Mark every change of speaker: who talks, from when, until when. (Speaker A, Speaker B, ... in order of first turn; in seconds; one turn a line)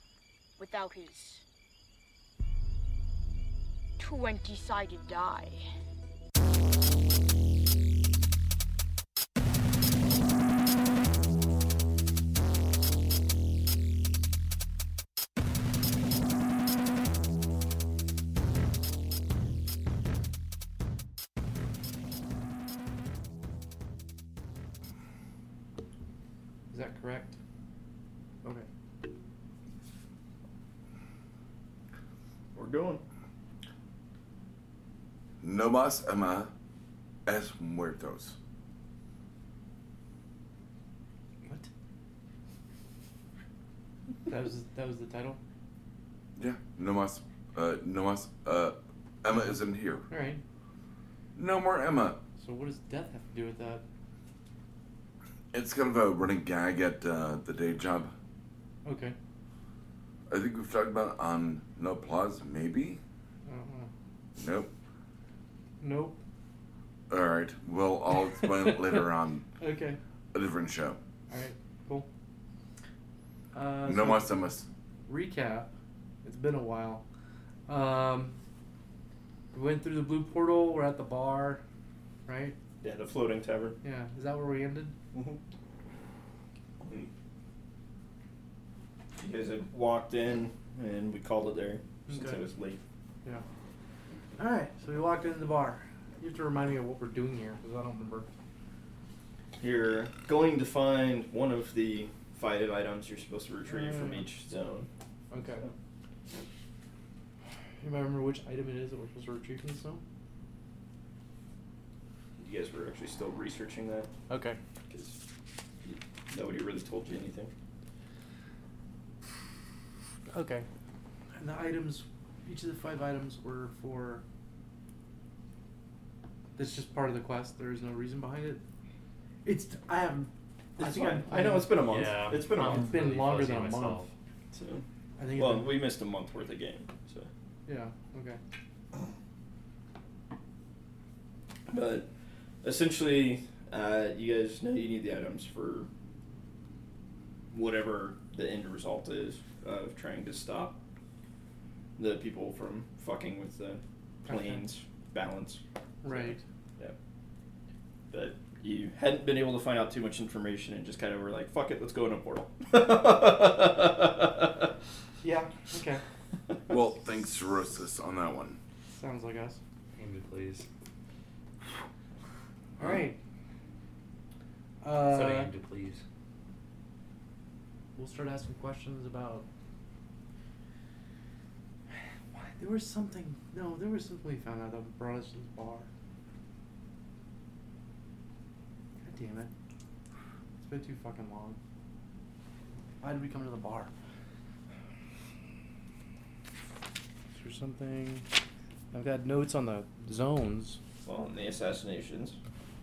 Speaker A: 0.6-1.4
Speaker A: 4.0-5.6
Speaker B: 26.7-27.4
Speaker C: 32.5-33.0
Speaker D: 35.4-36.5
Speaker D: 37.2-38.4
Speaker B: 44.3-45.4
Speaker D: 46.4-50.0
Speaker B: 50.1-50.4
Speaker D: 51.4-52.2
Speaker B: 52.4-53.8
Speaker D: 55.5-58.1
Speaker B: 58.8-59.1
Speaker D: 60.3-63.0
Speaker B: 63.5-63.9
Speaker D: 64.4-64.7
Speaker B: 65.8-66.2
Speaker D: 67.1-69.4
Speaker B: 68.3-69.1
Speaker B: 69.6-70.0
Speaker D: 70.3-71.0
Speaker B: 71.3-72.1
Speaker B: 73.5-74.3
Speaker D: 73.8-74.6
Speaker B: 75.1-75.7
Speaker B: 76.2-77.0
Speaker B: 77.7-78.3
Speaker B: 79.5-81.6
Speaker B: 82.3-82.5
Speaker C: 82.8-83.8
Speaker B: 83.8-84.9
Speaker C: 85.1-85.4
Speaker C: 86.8-87.1
Speaker C: 89.2-92.8
Speaker B: 92.1-92.4
Speaker B: 94.4-98.3
Speaker C: 99.6-104.9
Speaker B: 103.7-104.2
Speaker B: 105.3-105.7
Speaker B: 107.8-110.0
Speaker C: 112.4-114.1
Speaker B: 114.3-114.6
Speaker C: 114.9-115.2
Speaker C: 115.8-117.5
Speaker B: 120.3-120.7
Speaker B: 121.4-124.2
Speaker B: 126.6-128.6
Speaker B: 129.4-131.8
Speaker C: 130.8-133.0
Speaker E: 131.8-134.1
Speaker B: 132.5-134.1
Speaker C: 134.5-134.8
Speaker B: 135.2-135.8
Speaker C: 135.3-137.3
Speaker B: 137.7-138.4
Speaker C: 141.7-142.1
Speaker C: 142.6-145.9
Speaker C: 147.5-150.8
Speaker C: 152.0-156.9
Speaker B: 154.3-154.7
Speaker B: 156.0-156.4
Speaker C: 158.1-164.7
Speaker B: 165.2-166.0
Speaker D: 166.7-168.6
Speaker B: 168.9-169.6
Speaker E: 169.9-170.7
Speaker B: 172.8-173.2
Speaker B: 174.8-175.5
Speaker E: 175.1-176.0
Speaker B: 177.9-179.4
Speaker B: 181.9-185.9
Speaker B: 189.0-189.5
Speaker B: 190.6-191.6
Speaker B: 193.0-193.9
Speaker B: 197.3-198.2
Speaker B: 198.9-200.8
Speaker C: 201.0-202.4